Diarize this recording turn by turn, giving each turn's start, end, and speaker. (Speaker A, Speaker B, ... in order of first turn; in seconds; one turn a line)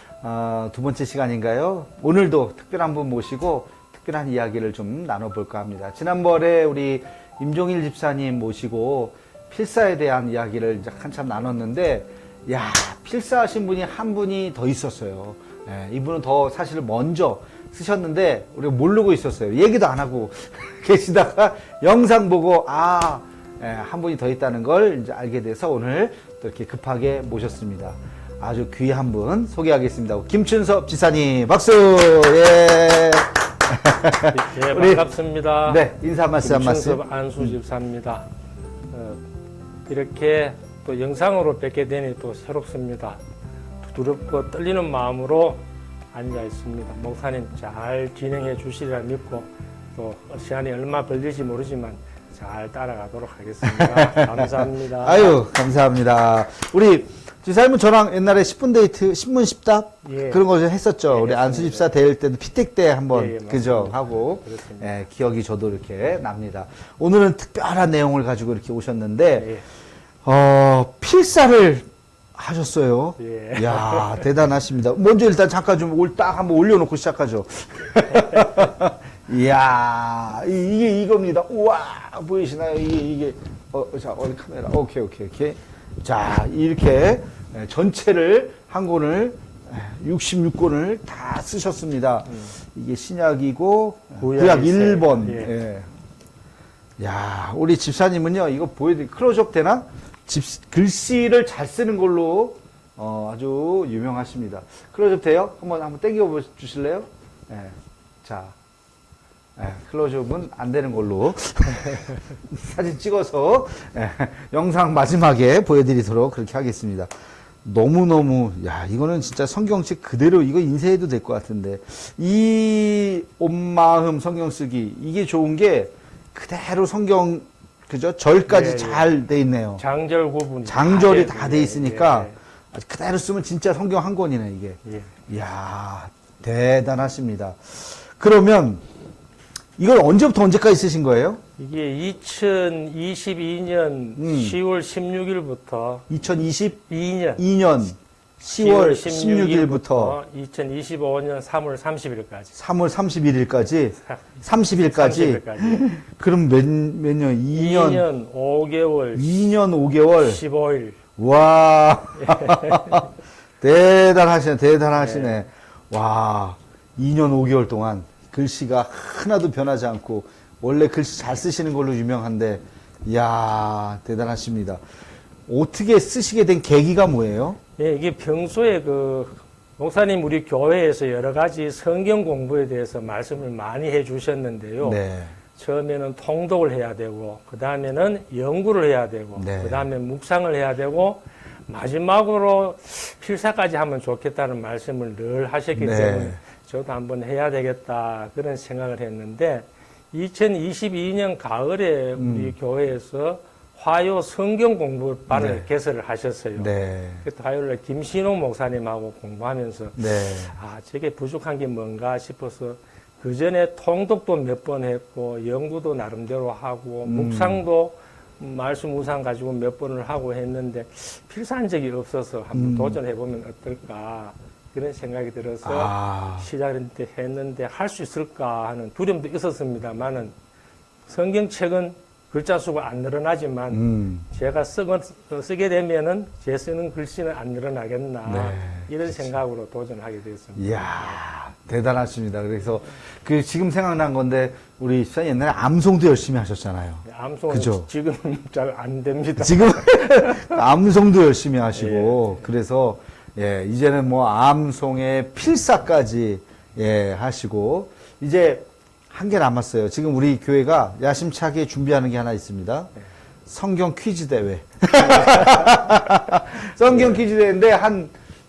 Speaker A: 0.2-35.1
Speaker B: 34.3-35.9
Speaker A: 35.6-37.5
Speaker B: 36.4-38.3
Speaker B: 38.9-39.2
Speaker B: 39.9-43.2
Speaker B: 43.8-55.4
Speaker A: 53.6-69.5
Speaker B: 60.0-60.4
Speaker B: 61.1-61.9
Speaker B: 63.1-64.9
Speaker B: 69.3-69.6
Speaker A: 70.2-95.9
Speaker B: 73.2-74.3
Speaker B: 78.1-78.7
Speaker B: 92.3-92.5
Speaker B: 94.2-95.5
Speaker A: 97.0-108.5
Speaker A: 109.5-117.1
Speaker A: 117.6-129.8
Speaker B: 128.5-129.1
Speaker B: 129.8-132.3
Speaker A: 130.6-138.8
Speaker B: 134.8-135.1
Speaker A: 139.8-141.4
Speaker B: 141.6-146.1
Speaker A: 144.2-144.6
Speaker A: 146.1-150.2
Speaker B: 146.9-147.4
Speaker B: 148.4-152.5
Speaker A: 152.5-158.0
Speaker B: 154.1-155.9
Speaker B: 157.5-159.4
Speaker A: 159.1-160.4
Speaker B: 160.2-161.0
Speaker A: 161.2-163.1
Speaker B: 162.2-163.1
Speaker A: 163.6-174.8
Speaker B: 164.9-165.4
Speaker A: 175.5-177.6
Speaker B: 177.8-185.0
Speaker A: 184.8-185.3
Speaker B: 185.6-206.7
Speaker A: 189.4-189.9
Speaker A: 195.8-196.4
Speaker A: 202.2-202.5
Speaker A: 205.3-205.6
Speaker A: 206.6-207.2
Speaker B: 207.2-230.3
Speaker A: 209.9-210.5
Speaker A: 217.1-217.6
Speaker A: 222.5-223.0
Speaker A: 225.6-226.5
Speaker B: 231.1-241.2
Speaker A: 233.7-234.2
Speaker A: 238.2-239.3
Speaker A: 240.6-247.9
Speaker B: 247.0-250.6
Speaker A: 249.4-262.9
Speaker B: 251.7-252.4
Speaker A: 263.5-268.1
Speaker B: 265.0-265.8
Speaker B: 266.9-267.2